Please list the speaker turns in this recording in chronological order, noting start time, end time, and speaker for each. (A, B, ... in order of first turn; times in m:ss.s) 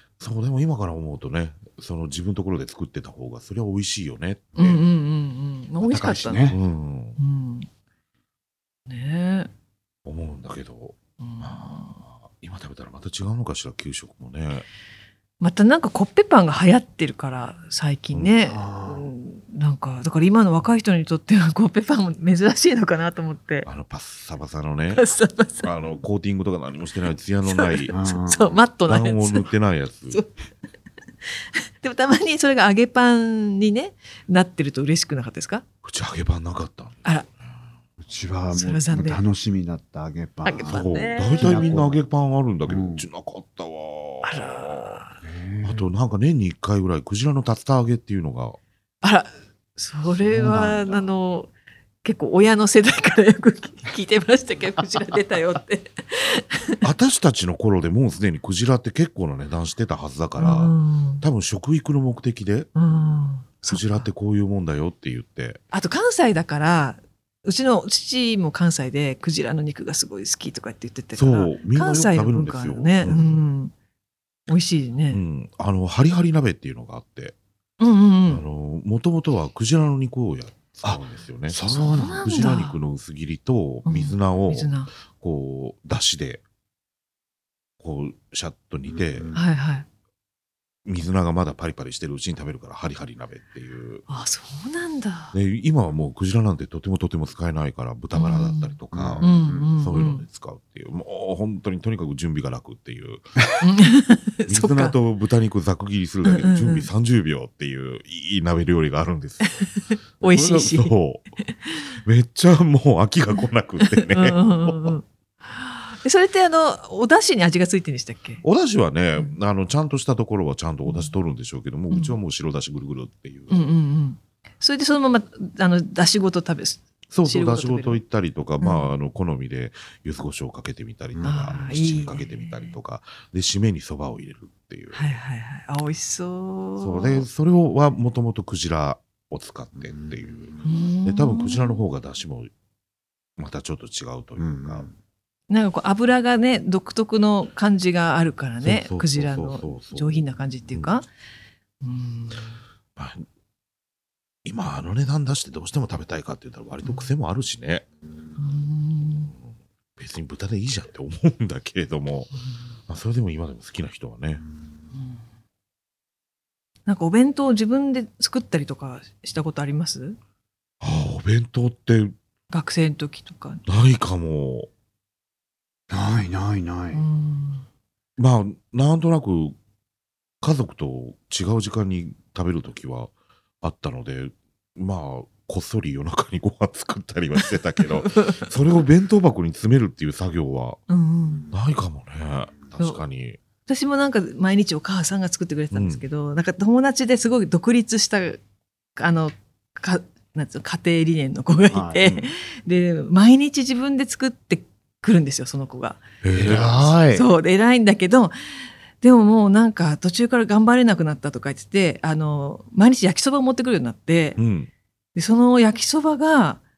0:00.2-0:04.8 A
0:04.6-0:06.6 B
0:05.8-0:06.6 C
0:06.4-0:07.2 A
0:07.2-0:07.7 B
0:08.9-0:09.5 B
0:10.1-0:14.7 A
0:11.2-0:12.0 B
0:15.4-0:23.7 B
0:18.1-0:18.4 A
0:18.5-0:19.1 C
0:23.7-0:25.0 A
0:24.9-0:25.7 B
0:25.6-0:27.9 A
0:27.4-0:29.5 B
0:27.9-0:28.6 C
0:28.9-0:30.2 A
0:31.8-0:35.6 B
0:35.8-0:37.0 A
0:38.1-0:42.0 C
0:38.5-0:39.2 B
0:40.4-0:41.8 B
0:40.6-0:45.0 A
0:42.7-0:43.1 C
0:44.2-0:45.2 B
0:45.2-0:45.9 C
0:45.6-0:48.6 A
0:49.0-0:51.5 B
0:50.2-0:50.9 C
0:52.0-0:56.8 B
0:56.8-1:02.7 A
1:00.4-1:01.2 B
1:02.8-1:04.1 B
1:03.7-1:05.6 A
1:05.7-1:13.7 B
1:11.2-1:13.5 A
1:14.5-1:15.2 B
1:15.1-1:17.4 A
1:17.8-1:18.4 B
1:18.3-1:26.4 A
1:20.8-1:22.6 C
1:21.7-1:22.8 B
1:23.9-1:24.9 B
1:27.8-1:29.3 A
1:29.0-1:29.4 C
1:29.3-1:29.9 B
1:30.9-1:34.0 A
1:34.1-1:35.4 B
1:35.3-1:43.4 A
1:38.1-1:40.2 B
1:38.9-1:39.7 C
1:43.6-1:44.9 B
1:44.5-1:49.7 A
1:46.2-1:46.9 B
1:49.9-1:50.9 B
1:50.2-1:51.2 A
1:52.0-1:55.0 A
1:53.8-1:58.4 B
1:58.4-2:03.7 A
2:00.9-2:01.1 B
2:03.5-2:08.0 B
2:07.1-2:15.0 A
2:08.6-2:08.9 B
2:11.2-2:12.7 B
2:14.9-2:17.3 B
2:16.8-2:22.5 A
2:20.6-2:21.8 B
2:23.4-2:24.9 A
2:24.4-2:24.9 C
2:25.5-2:31.1 B
2:28.6-2:30.2 A
2:31.8-2:32.6 B
2:33.0-2:33.2 A
2:34.4-2:37.8 A
2:36.8-2:37.1 B
2:38.4-2:39.3 B
2:40.0-2:42.3 A
2:42.9-2:44.4 A
2:46.9-2:50.2 B
2:50.8-2:52.1 A
2:52.5-2:53.6 B
2:53.7-2:54.7 A
2:55.9-2:57.0 C
2:56.9-2:57.6 B
2:58.2-2:59.6 A
3:00.4-3:03.1 A
3:03.6-3:10.8 A
3:08.0-3:08.3 B
3:10.9-3:11.5 B
3:11.5-3:13.4 A
3:13.7-3:18.4 B
3:15.7-3:16.0 A
3:19.0-3:26.0 B
3:21.7-3:22.0 C
3:22.0-3:22.3 A
3:26.2-3:27.0 A
3:26.3-3:27.3 C
3:27.1-3:28.3 B
3:29.0-3:34.4 B
3:34.4-3:34.7 A
3:35.2-3:36.6 B